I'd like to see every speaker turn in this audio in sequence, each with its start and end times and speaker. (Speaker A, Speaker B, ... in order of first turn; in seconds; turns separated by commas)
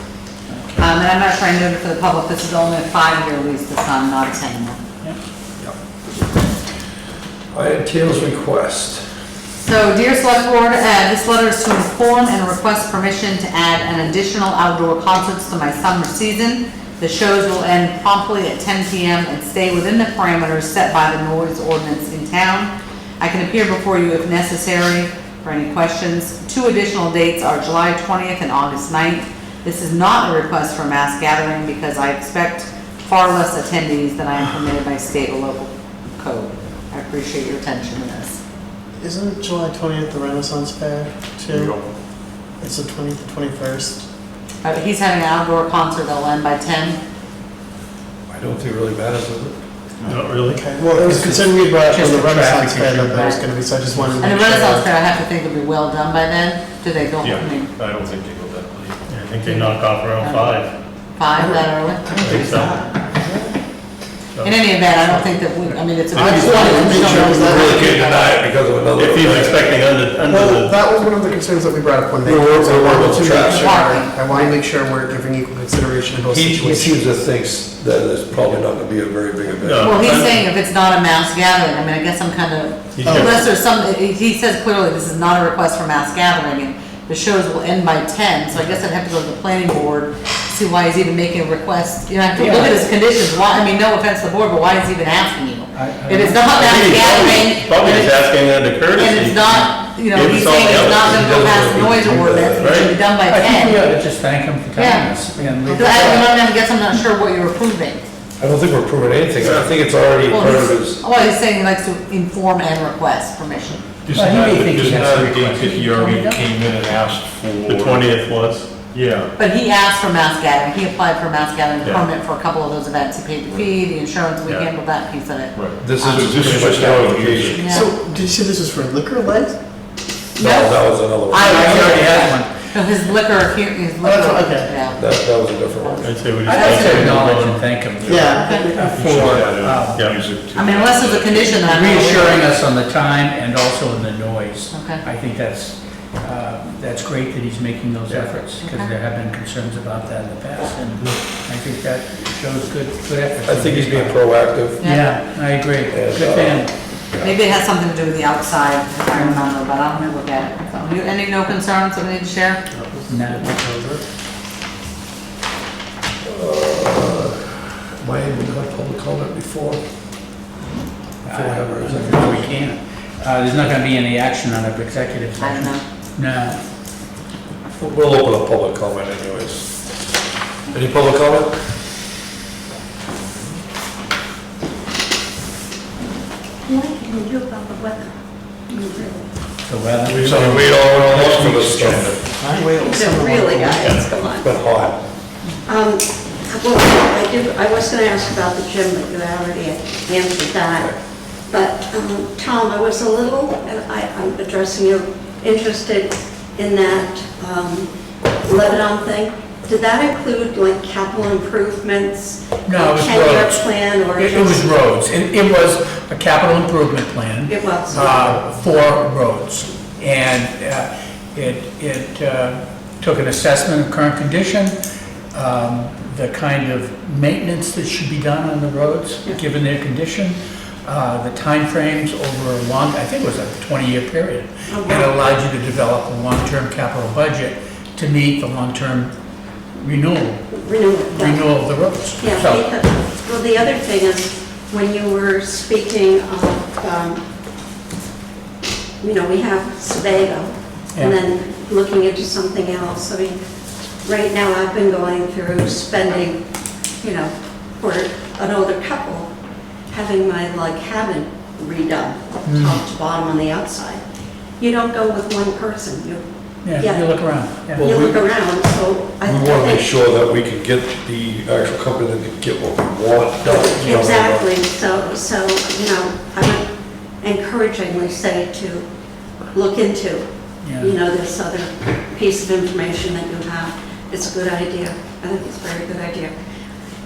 Speaker A: 0.5-0.9, Speaker B: 0.8-4.8, Speaker C: 7.5-9.1, Speaker B: 9.6-38.4, Speaker D: 39.0-41.8, Speaker E: 41.5-41.9, Speaker D: 42.6-44.0, Speaker B: 44.6-47.0, Speaker C: 48.3-49.6, Speaker F: 50.0-51.4, Speaker D: 50.5-54.9, Speaker A: 51.9-54.0, Speaker B: 53.1-53.4, Speaker B: 54.2-57.7, Speaker E: 57.2-59.0, Speaker F: 59.1-60.7, Speaker B: 60.2-60.6, Speaker B: 61.1-63.0, Speaker D: 61.4-63.6, Speaker F: 62.4-62.8, Speaker B: 64.4-68.4, Speaker D: 66.1-67.7, Speaker F: 66.1-66.5, Speaker C: 66.6-69.6, Speaker F: 69.0-70.8, Speaker D: 70.2-77.0, Speaker C: 72.2-73.9, Speaker B: 73.3-74.6, Speaker C: 76.3-80.1, Speaker F: 79.5-80.4, Speaker B: 79.8-98.3, Speaker F: 83.0-83.4, Speaker D: 83.0-83.4, Speaker A: 92.3-92.8, Speaker A: 95.7-96.9, Speaker F: 96.6-101.2, Speaker B: 98.9-104.0, Speaker C: 100.2-102.9, Speaker F: 102.6-102.9, Speaker A: 103.3-106.4, Speaker B: 104.8-108.0, Speaker C: 108.4-111.0, Speaker E: 109.4-109.7, Speaker B: 110.3-113.9, Speaker E: 114.0-118.1, Speaker A: 114.1-116.4, Speaker F: 117.6-118.9, Speaker B: 119.4-126.4, Speaker E: 125.5-127.7, Speaker C: 125.8-127.7, Speaker B: 127.6-127.9, Speaker D: 127.6-129.6, Speaker C: 130.4-132.2, Speaker B: 130.4-136.0, Speaker A: 131.3-132.6, Speaker D: 134.0-134.8, Speaker C: 134.9-136.2, Speaker F: 136.0-137.8, Speaker A: 136.4-140.1, Speaker E: 137.9-141.9, Speaker D: 138.1-139.5, Speaker B: 138.4-138.7, Speaker F: 139.9-140.2, Speaker B: 140.5-142.5, Speaker A: 141.6-154.2, Speaker B: 144.7-145.0, Speaker B: 148.6-148.9, Speaker C: 153.5-154.8, Speaker B: 154.8-155.1, Speaker A: 154.8-156.7, Speaker C: 155.9-157.3, Speaker B: 157.2-162.6, Speaker A: 159.1-159.4, Speaker D: 162.7-164.0, Speaker A: 163.1-163.6, Speaker C: 166.2-169.8, Speaker C: 171.2-172.5, Speaker A: 171.2-176.6, Speaker B: 175.4-175.8, Speaker C: 177.8-179.9, Speaker C: 180.7-181.6, Speaker G: 186.7-188.2, Speaker G: 188.7-189.2, Speaker A: 189.7-190.2, Speaker E: 190.1-192.4, Speaker C: 190.2-192.2, Speaker D: 192.4-194.0, Speaker G: 192.6-194.7, Speaker C: 194.4-195.0, Speaker G: 195.7-200.9, Speaker G: 201.5-214.7, Speaker A: 212.7-213.6, Speaker A: 214.2-224.8, Speaker G: 217.5-218.4, Speaker A: 225.3-239.1, Speaker G: 234.7-235.1, Speaker A: 239.8-240.5, Speaker G: 240.5-241.6, Speaker A: 241.1-242.6, Speaker G: 242.2-247.2, Speaker G: 249.0-253.4, Speaker G: 254.0-256.4, Speaker G: 257.0-259.3, Speaker G: 259.9-264.0, Speaker A: 262.4-262.8, Speaker G: 264.6-269.9, Speaker A: 266.6-267.8, Speaker C: 267.8-268.2, Speaker C: 269.2-274.5, Speaker G: 273.4-276.7, Speaker G: 277.2-278.9, Speaker G: 279.5-286.3, Speaker A: 280.6-280.9